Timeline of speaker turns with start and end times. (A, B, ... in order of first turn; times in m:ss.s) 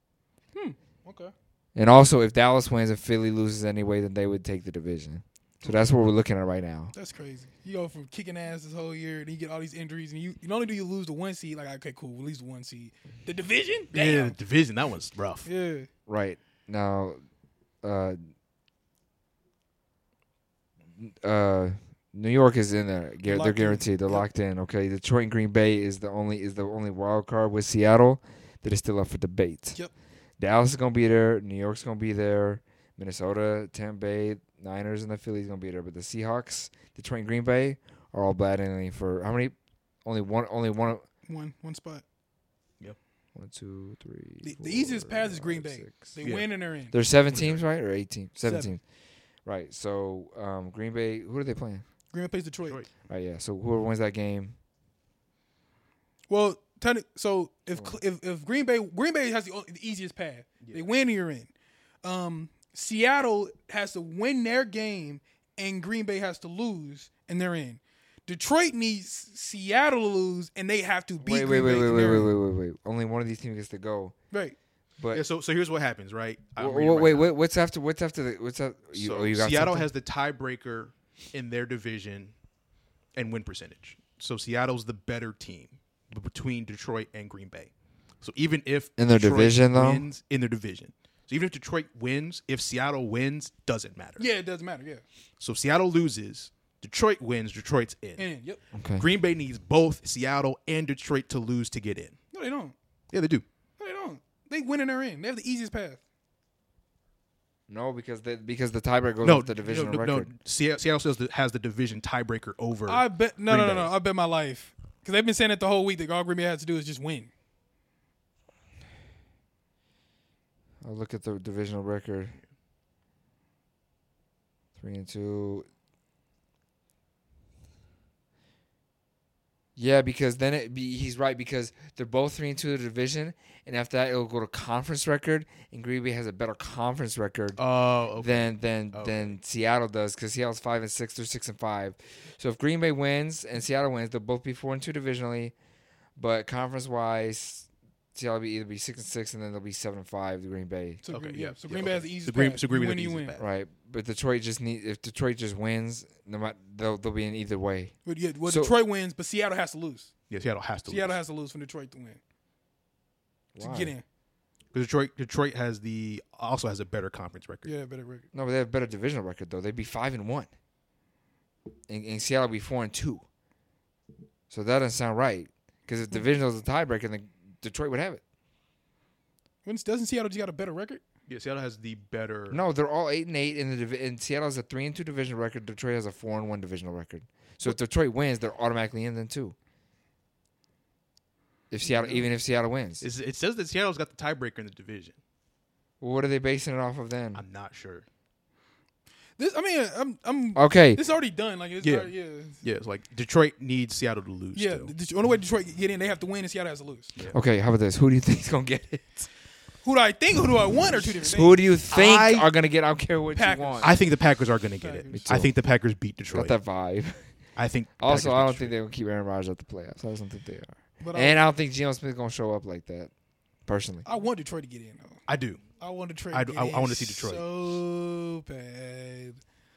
0:00.5-0:01.3 A
0:01.7-0:06.9 B
0:06.9-0:14.4 A
0:13.9-0:15.5 C
0:15.4-0:15.9 A
0:16.1-0:17.2 B
0:17.8-0:18.2 B
0:21.0-0:29.8 B
0:23.2-0:24.2 A
0:30.4-0:41.0 B
0:41.2-0:42.0 A
0:43.3-0:46.2 B
0:44.4-0:47.0 A
0:46.2-0:46.5 C
0:46.9-0:48.8 B
0:47.3-0:47.6 C
0:48.4-0:48.7 A
0:49.4-0:51.8 B
0:52.1-0:52.8 A
0:53.0-0:54.6 B
0:56.3-1:01.5 A
0:57.7-0:58.0 B
1:00.6-1:00.8 C
1:02.0-1:12.3 A
1:11.2-1:14.2 B
1:15.0-1:15.2 B
1:15.1-1:17.3 C
1:16.6-1:19.9 B
1:18.9-1:22.3 C
1:23.2-1:34.2 C
1:29.0-1:30.1 B
1:34.2-1:35.0 A
1:35.4-1:38.3 C
1:38.2-1:38.6 A
1:38.7-1:39.0 B
1:39.0-1:42.2 C
1:42.3-1:42.7 A
1:43.1-1:43.4 C
1:43.8-1:46.0 A
1:47.7-1:50.3 B
1:49.2-1:53.9 C
1:52.9-1:57.3 A
2:00.8-2:02.4 B
2:04.8-2:05.6 B
2:09.8-2:17.6 B
2:17.6-2:19.3 C
2:18.2-2:25.5 B
2:26.2-2:31.0 B
2:31.0-2:33.4 A
2:31.1-2:33.4 C
2:33.4-2:38.7 B
2:38.0-2:40.1 A
2:40.3-2:41.2 C
2:40.9-2:42.2 A
2:43.5-2:43.9 B
2:43.6-2:44.0 A
2:44.7-2:47.7 C
2:47.6-2:48.2 A
2:48.3-2:50.5 B
2:51.9-2:53.2 B
2:54.5-2:58.2 B
2:59.6-3:01.0 A
3:01.3-3:02.6 C
3:02.5-3:09.5 B
3:11.7-3:13.0 B
3:13.0-3:15.2 C
3:16.0-3:17.4 B
3:17.3-3:18.0 C
3:19.4-3:22.6 A
3:20.6-3:21.0 B
3:21.8-3:22.1 C
3:22.6-3:24.9 C
3:24.5-3:27.1 A
3:27.3-3:29.3 B
3:29.8-3:31.6 A
3:31.1-3:33.9 B
3:31.9-3:32.5 C
3:33.3-3:34.0 A
3:33.8-3:36.5 C
3:34.8-3:35.3 A
3:35.1-3:35.5 B
3:36.3-3:37.3 B
3:37.6-3:38.7 C
3:38.0-3:43.1 B
3:41.0-3:41.4 A
3:43.6-3:44.0 B
3:44.0-3:45.2 A
3:45.3-3:45.6 C
3:45.8-3:49.4 A
3:46.3-3:47.4 C